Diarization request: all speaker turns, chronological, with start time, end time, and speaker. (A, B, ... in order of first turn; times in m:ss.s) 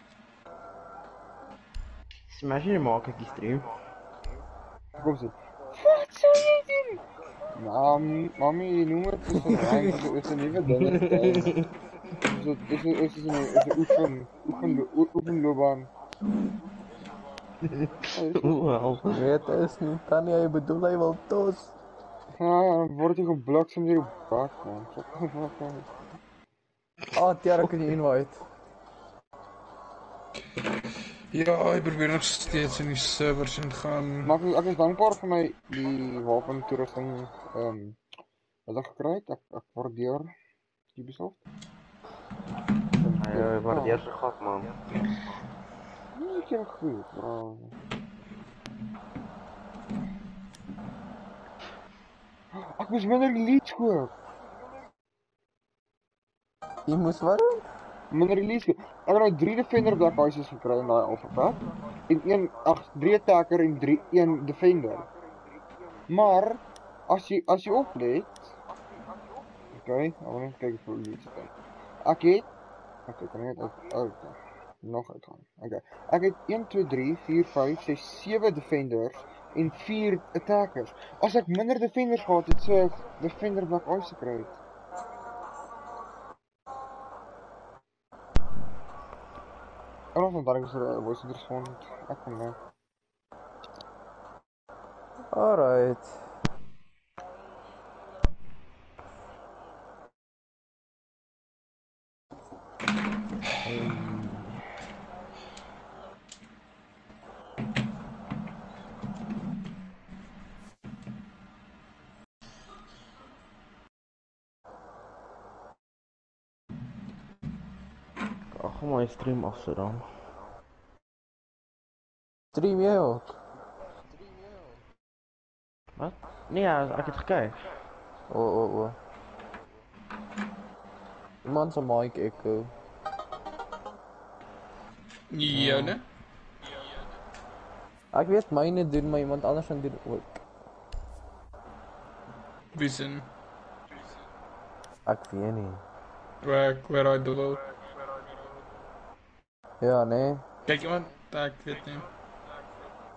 0:02.3-0:03.7 A
0:05.0-0:07.0 B
0:07.5-0:11.6 B
0:09.4-0:09.9 C
0:10.8-0:11.7 A
0:12.2-0:15.9 B
0:17.6-0:19.2 A
0:18.1-0:19.3 B
0:19.1-0:21.7 C
0:22.4-0:25.9 B
0:27.1-0:28.4 C
0:31.3-0:34.3 D
0:34.2-0:38.0 B
0:38.7-0:40.3 B
0:40.9-0:41.4 B
0:43.0-0:44.0 B
0:43.2-0:44.8 A
0:46.1-0:47.8 B
0:52.5-0:54.1 B
0:56.9-0:57.6 C
0:58.1-1:05.1 B
1:06.1-1:08.5 B
1:09.7-1:11.5 B
1:12.0-1:12.5 B
1:13.1-1:24.6 B
1:30.1-1:32.6 B
1:35.3-1:36.2 C
1:43.6-1:44.5 C
1:58.5-2:00.0 A
2:02.5-2:03.4 C
2:06.0-2:07.7 A
2:08.3-2:09.0 C
2:11.4-2:12.7 C
2:15.3-2:16.0 D
2:15.5-2:16.0 C
2:18.1-2:20.4 C
2:22.7-2:23.3 D
2:25.0-2:25.8 C
2:26.4-2:27.7 D
2:29.8-2:30.4 C
2:30.6-2:32.0 D